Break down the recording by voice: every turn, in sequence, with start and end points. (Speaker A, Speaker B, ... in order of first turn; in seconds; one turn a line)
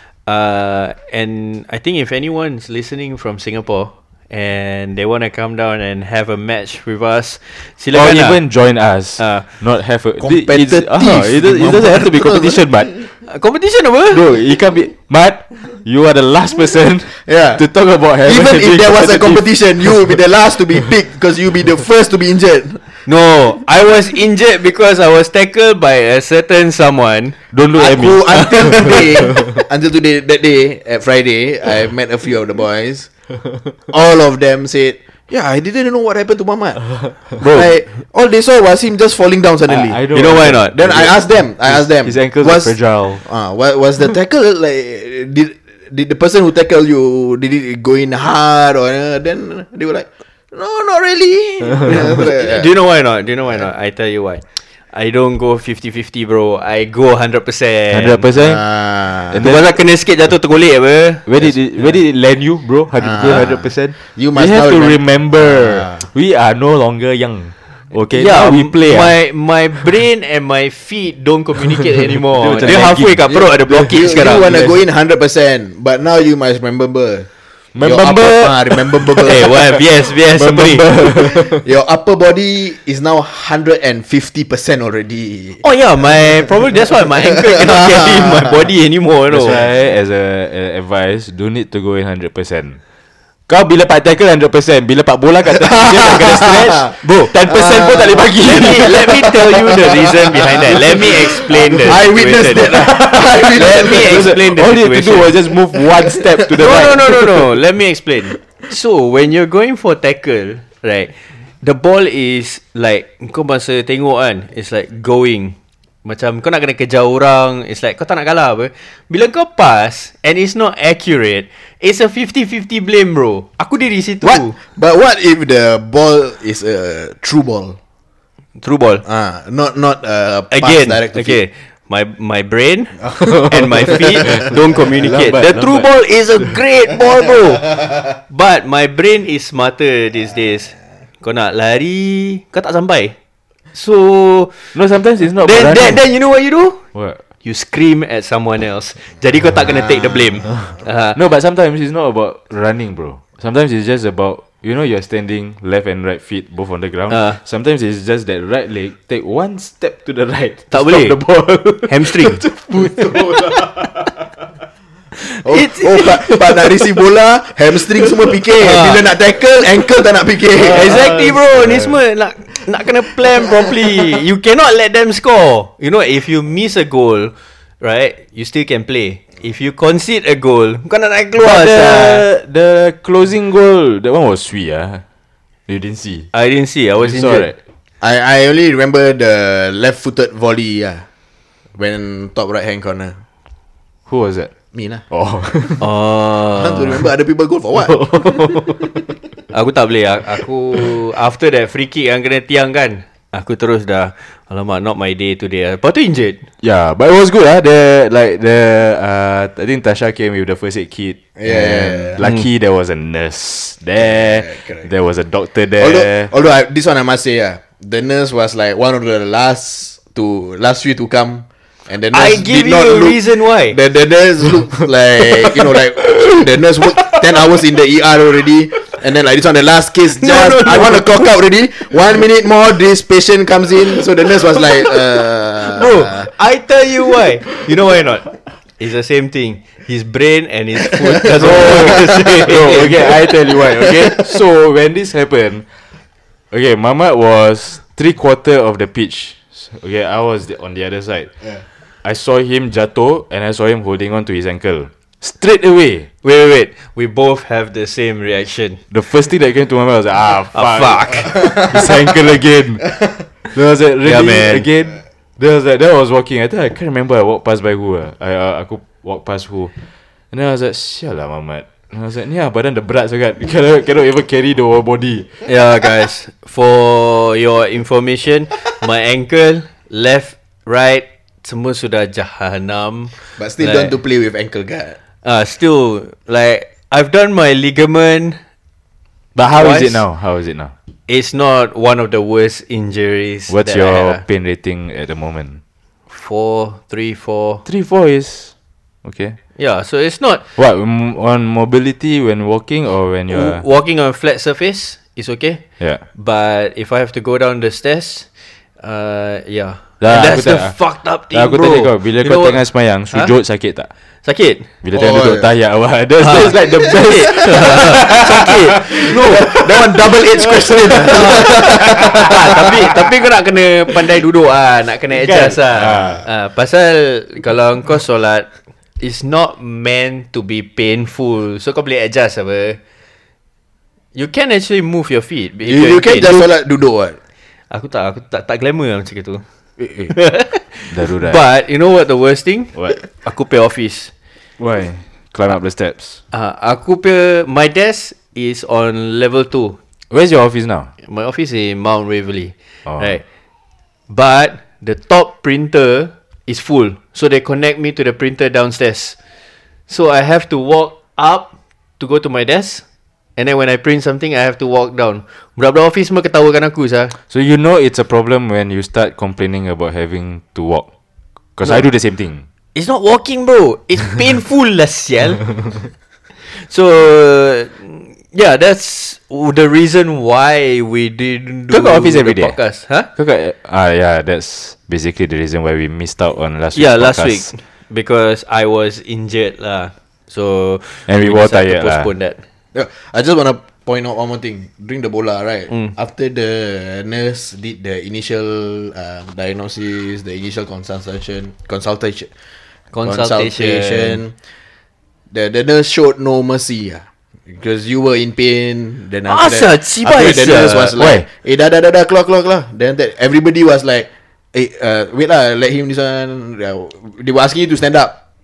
Speaker A: 0.2-8.4
Speaker B: 7.9-13.0
Speaker A: 9.2-9.4
Speaker C: 10.2-13.0
Speaker A: 13.2-14.2
Speaker B: 14.1-20.1
Speaker C: 17.2-17.6
Speaker C: 18.2-23.0
Speaker A: 23.1-27.4
Speaker B: 27.5-29.3
Speaker C: 27.7-33.1
Speaker C: 33.9-40.0
Speaker B: 37.3-37.7
Speaker B: 39.6-43.2
Speaker A: 40.1-40.8
Speaker C: 40.6-52.7
Speaker A: 51.9-58.2
Speaker B: 57.9-59.7
Speaker C: 58.3-59.4
Speaker A: 59.4-62.0
Speaker B: 61.2-69.1
Speaker C: 63.0-66.0
Speaker A: 68.1-74.8
Speaker B: 72.3-73.3
Speaker C: 72.7-77.3
Speaker B: 77.7-79.5
Speaker C: 77.8-79.6
Speaker A: 79.2-80.8
Speaker B: 80.2-81.6
Speaker C: 81.0-85.6
Speaker A: 85.6-89.6
Speaker C: 87.5-88.6
Speaker B: 89.3-92.8
Speaker B: 93.5-99.4
Speaker C: 95.6-96.9
Speaker A: 97.0-97.3
Speaker C: 97.4-98.2
Speaker A: 98.4-102.9
Speaker C: 100.5-104.3
Speaker B: 102.6-107.5
Speaker A: 103.4-105.3
Speaker C: 105.8-106.3
Speaker A: 106.6-124.6
Speaker C: 124.2-127.8
Speaker A: 128.6-129.0
Speaker C: 129.0-131.4
Speaker A: 130.5-143.1
Speaker B: 133.2-135.9
Speaker A: 143.7-144.8
Speaker B: 144.7-146.0
Speaker A: 145.4-146.8
Speaker B: 146.9-147.2
Speaker A: 147.4-151.2
Speaker B: 151.1-164.3
Speaker A: 157.1-157.4
Speaker A: 160.7-161.2
Speaker A: 161.9-162.4
Speaker C: 162.9-163.3
Speaker A: 165.2-166.3
Speaker C: 165.4-171.1
Speaker A: 168.6-169.1
Speaker A: 170.6-182.2
Speaker B: 170.6-171.8
Speaker B: 181.3-185.0
Speaker B: 185.7-186.3
Speaker A: 186.3-187.5
Speaker B: 187.0-187.6
Speaker C: 188.0-191.1
Speaker C: 191.8-193.2
Speaker B: 194.1-194.5
Speaker C: 194.7-195.0
Speaker B: 195.1-195.8
Speaker A: 195.8-197.0
Speaker C: 196.5-198.3
Speaker B: 197.7-199.0
Speaker A: 199.5-206.4
Speaker B: 206.6-216.3
Speaker C: 211.4-212.2
Speaker A: 212.2-212.4
Speaker C: 214.0-214.9
Speaker C: 215.8-236.3
Speaker A: 222.1-223.8
Speaker B: 226.1-226.4
Speaker A: 230.2-231.3
Speaker A: 235.6-243.1
Speaker C: 241.1-244.2
Speaker B: 241.3-245.6
Speaker B: 246.5-251.3
Speaker B: 252.0-256.1
Speaker A: 256.2-258.8
Speaker B: 258.9-262.9
Speaker A: 260.5-261.3
Speaker B: 263.4-269.7
Speaker A: 264.0-264.7
Speaker B: 270.3-275.4
Speaker A: 275.4-283.9
Speaker C: 283.4-285.0
Speaker A: 285.2-288.4
Speaker B: 289.3-290.7
Speaker A: 289.5-290.0
Speaker A: 291.1-294.2
Speaker B: 293.5-295.6
Speaker A: 296.1-297.6
Speaker B: 297.6-298.5
Speaker B: 299.0-299.4
Speaker A: 299.6-300.4
Speaker B: 300.6-303.6
Speaker A: 303.3-305.6
Speaker A: 306.1-308.3
Speaker A: 308.8-313.3
Speaker B: 310.0-310.8
Speaker B: 311.3-313.9
Speaker A: 314.2-314.7
Speaker B: 314.8-322.2
Speaker C: 314.9-315.5
Speaker A: 316.2-319.5
Speaker C: 318.9-322.3
Speaker A: 320.9-332.8
Speaker B: 325.2-326.2
Speaker A: 334.1-336.4
Speaker C: 335.6-337.2
Speaker A: 337.7-339.4
Speaker A: 340.1-344.1
Speaker B: 340.9-341.4
Speaker B: 344.6-346.2
Speaker A: 346.3-349.8
Speaker B: 350.1-350.9
Speaker A: 351.0-353.2
Speaker A: 354.1-359.1
Speaker A: 359.9-361.5
Speaker A: 362.0-362.8
Speaker A: 363.4-367.1
Speaker B: 367.3-370.9
Speaker B: 371.6-372.4
Speaker A: 372.7-375.8
Speaker A: 376.4-383.1
Speaker B: 381.7-382.6
Speaker B: 383.1-387.5
Speaker A: 386.7-392.4
Speaker B: 391.1-392.1
Speaker C: 392.7-402.3
Speaker A: 402.9-404.2
Speaker C: 403.0-404.3
Speaker C: 405.3-418.1
Speaker A: 409.2-410.9
Speaker B: 411.0-411.2